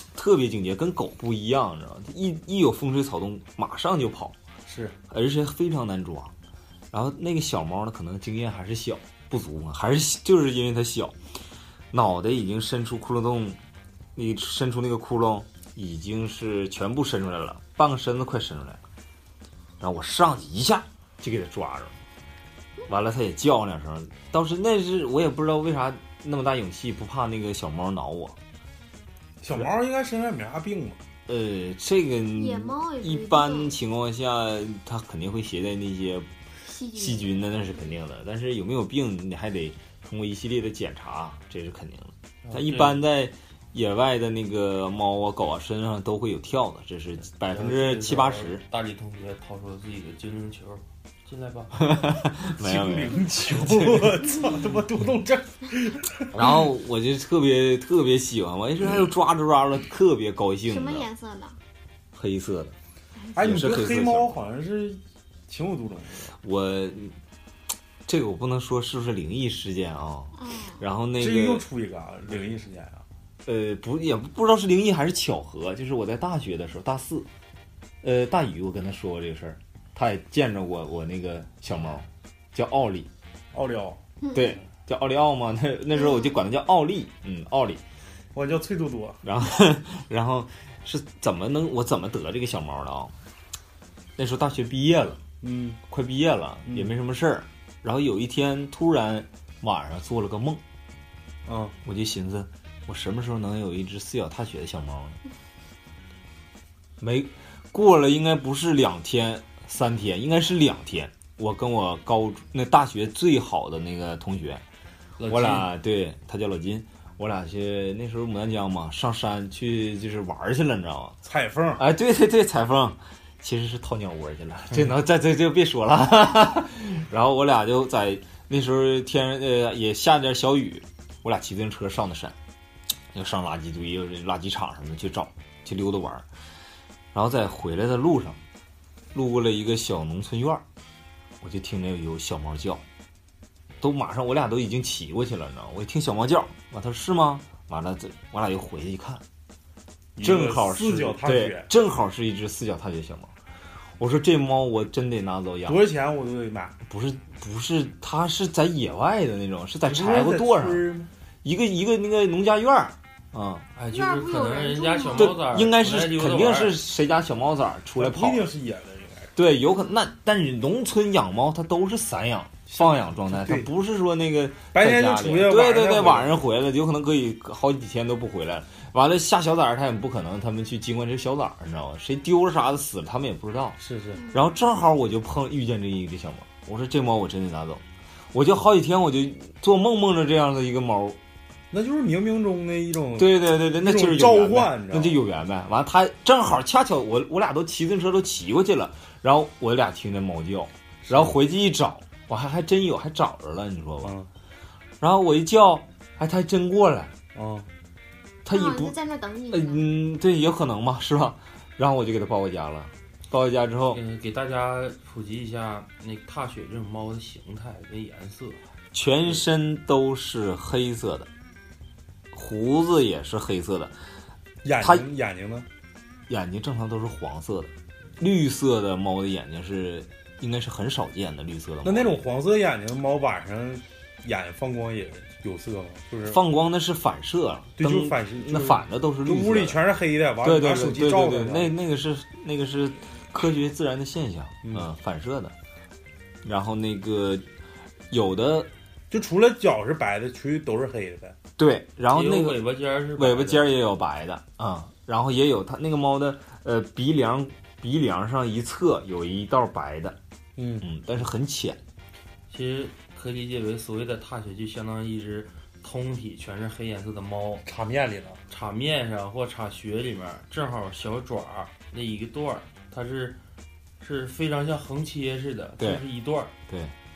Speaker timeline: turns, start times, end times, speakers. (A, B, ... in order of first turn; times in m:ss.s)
0:00.1-0:04.4 A
0:04.7-0:05.0 B
0:05.1-0:06.3 A
0:06.9-0:11.2 A
0:11.9-0:13.6 A
0:14.2-0:18.8 A
0:19.8-0:22.0 A
0:22.9-0:28.4 A
0:29.4-0:31.0 B
0:31.3-0:36.3 A
0:32.4-0:33.8 C
0:36.6-0:38.0 C
0:36.9-0:48.6 A
0:42.4-0:43.0 D
0:47.2-0:51.8 D
0:51.8-0:54.1 A
0:52.6-0:56.5 B
0:56.3-1:01.1 A
1:00.7-1:01.6 C
1:02.1-1:02.8 A
1:03.2-1:03.4 C
1:03.3-1:06.4 B
1:03.4-1:04.3 A
1:06.4-1:07.2 A
1:08.1-1:11.6 A
1:10.4-1:10.8 C
1:11.2-1:13.0 B
1:13.4-1:17.3 A
1:18.0-1:23.1 A
1:23.5-1:24.0 B
1:24.2-1:24.6 C
1:24.3-1:27.8 A
1:25.9-1:26.4 C
1:28.3-1:29.2 B
1:29.2-1:33.1 A
1:34.2-1:35.2 A
1:35.4-1:35.8 B
1:35.9-1:40.6 A
1:36.7-1:37.0 B
1:41.5-1:41.8 B
1:41.8-1:45.2 A
1:47.0-1:54.6 A
1:55.2-1:55.7 D
1:55.3-2:01.2 A
2:01.2-2:01.8 B
2:01.8-2:12.4 A
2:13.1-2:16.3 A
2:17.1-2:18.4 A
2:19.1-2:20.6 A
2:21.4-2:22.8 A
2:23.8-2:29.2 A
2:30.2-2:31.7 B
2:30.2-2:33.3 A
2:34.0-2:35.8 A
2:35.7-2:36.8 B
2:36.9-2:40.8 A
2:39.9-2:41.1 B
2:41.4-2:43.7 A
2:43.8-2:46.8 D
2:43.9-2:45.4 C
2:45.2-2:48.5 A
2:48.0-2:49.3 B
2:49.4-3:03.8 A
2:52.7-2:53.7 B
2:54.7-2:56.4 B
3:03.8-3:04.2 B
3:04.3-3:11.2 A
3:11.7-3:15.2 B
3:13.2-3:24.2 A
3:21.0-3:21.4 B
3:24.0-3:24.3 B
3:25.0-3:27.1 A
3:27.3-3:27.7 B
3:28.4-3:29.0 A
3:28.5-3:29.9 C
3:29.5-3:34.0 A
3:33.9-3:38.6 D
3:38.9-3:41.3 A
3:42.3-3:44.0 A
3:44.6-3:45.7 B
3:44.8-3:45.1 A
3:46.3-3:52.2 A
3:51.8-3:56.4 B
3:56.2-3:59.8 A
3:57.8-4:01.8 B
4:00.4-4:05.5 A
4:06.4-4:07.4 A
4:08.1-4:08.7 A
4:09.1-4:11.4 B
4:11.6-4:12.6 A
4:12.1-4:13.7 D
4:13.2-4:20.2 A
4:20.6-4:20.9 B
4:20.8-4:21.8 A
4:22.5-4:27.7 D
4:27.7-4:28.4 B
4:28.5-4:33.4 D
4:34.0-4:36.5 D
4:35.8-4:36.0 A
4:36.7-4:36.9 A